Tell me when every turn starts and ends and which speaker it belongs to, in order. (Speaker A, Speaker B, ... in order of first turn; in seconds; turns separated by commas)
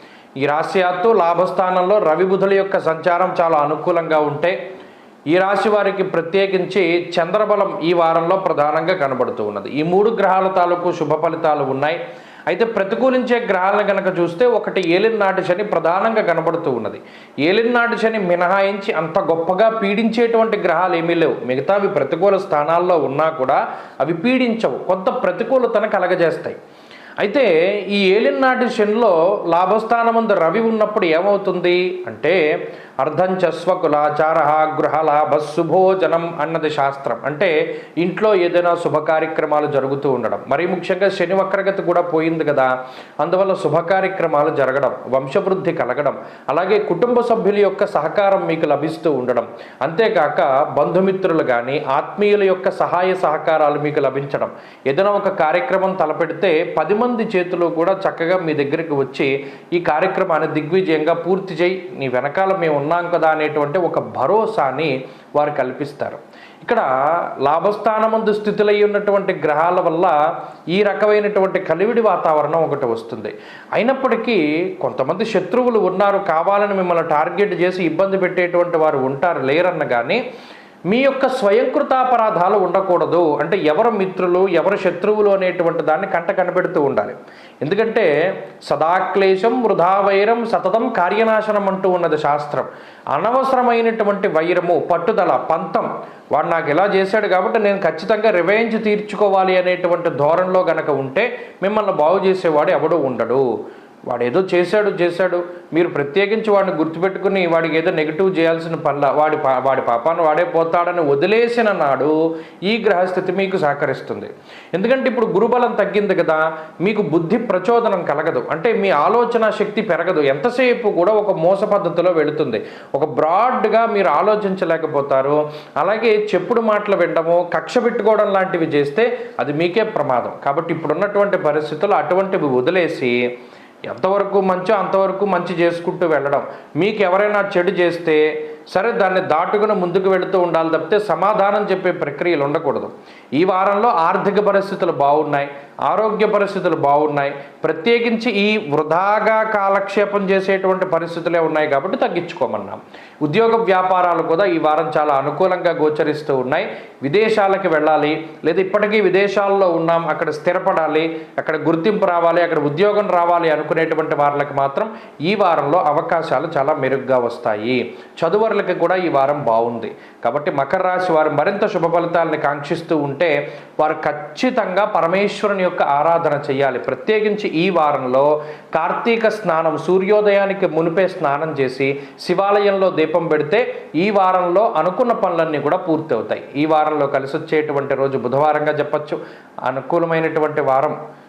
Speaker A: 0.4-4.5, Speaker A: 5.3-26.6, Speaker A: 27.2-32.4, Speaker A: 33.0-42.7, Speaker A: 43.2-66.9, Speaker A: 67.4-70.2, Speaker A: 70.8-80.2, Speaker A: 80.9-88.1, Speaker A: 88.7-103.5, Speaker A: 104.1-112.2, Speaker A: 112.7-133.2, Speaker A: 133.9-191.0